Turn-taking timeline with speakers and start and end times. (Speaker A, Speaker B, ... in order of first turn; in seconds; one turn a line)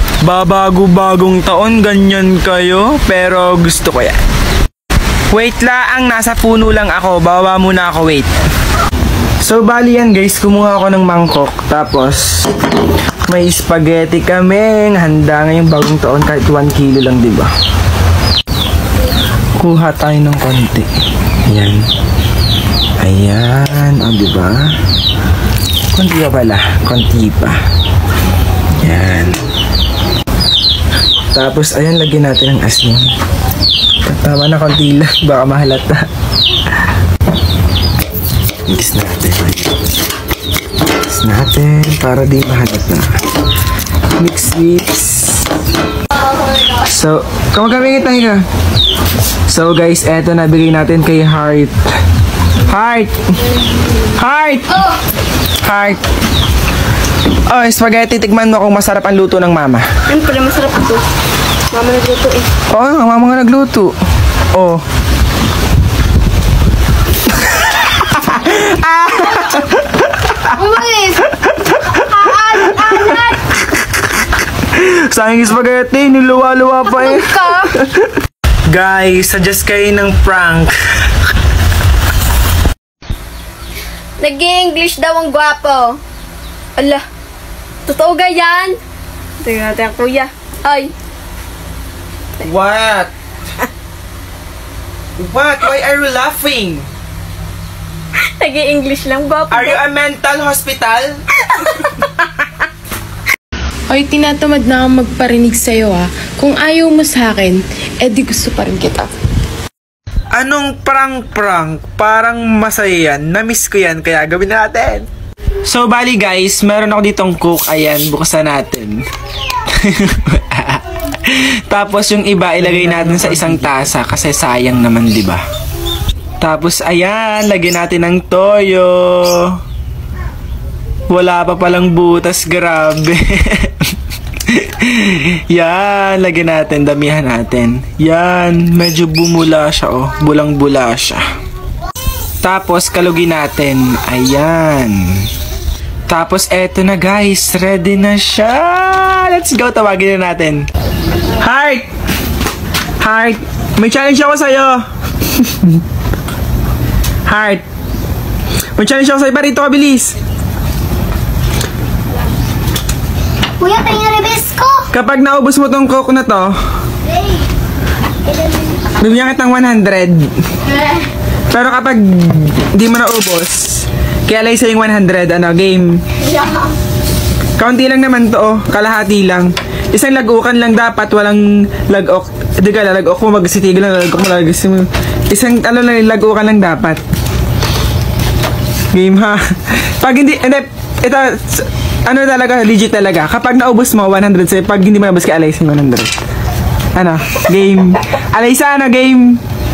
Speaker A: 0.2-4.2
Speaker A: 5.3-8.3
Speaker A: 9.4-12.4
Speaker A: 13.3-17.5
Speaker A: 19.6-20.9
Speaker A: 21.5-21.8
Speaker A: 23.0-24.7
Speaker A: 25.9-27.6
Speaker A: 28.8-29.4
Speaker A: 31.3-33.1
Speaker A: 34.0-36.0
Speaker A: 38.7-39.8
Speaker A: 40.9-43.2
Speaker A: 44.2-45.5
Speaker A: 46.8-48.4
Speaker A: 49.5-51.8
Speaker A: 52.7-53.2
Speaker A: 54.1-54.8
Speaker A: 55.6-56.0
Speaker A: 57.5-59.9
Speaker B: 60.1-61.0
Speaker B: 61.7-62.5
Speaker A: 62.7-63.9
Speaker A: 64.5-64.8
Speaker A: 67.3-70.5
Speaker B: 70.6-71.2
Speaker A: 71.3-73.2
Speaker B: 71.9-73.4
Speaker A: 74.6-78.1
Speaker B: 76.8-77.8
Speaker A: 78.7-80.7
Speaker B: 84.2-86.0
Speaker B: 86.8-87.0
Speaker B: 87.9-88.8
Speaker B: 89.4-90.9
Speaker A: 92.4-93.1
Speaker A: 95.2-96.9
Speaker B: 98.2-99.8
Speaker A: 99.5-101.2
Speaker C: 103.9-109.1
Speaker A: 110.3-115.1
Speaker A: 115.7-119.0
Speaker A: 119.7-125.4
Speaker A: 126.4-129.5
Speaker A: 131.1-133.7
Speaker A: 134.5-141.2
Speaker A: 142.4-145.3
Speaker A: 146.1-150.7
Speaker A: 151.4-151.9
Speaker A: 153.0-155.8
Speaker A: 157.3-157.6
Speaker A: 158.8-160.1
Speaker B: 163.6-164.9
Speaker A: 164.9-166.5
Speaker B: 168.3-169.0
Speaker A: 169.0-170.3
Speaker A: 171.5-176.0
Speaker B: 176.3-176.7
Speaker A: 177.6-187.0
Speaker A: 188.9-196.1
Speaker A: 196.9-199.4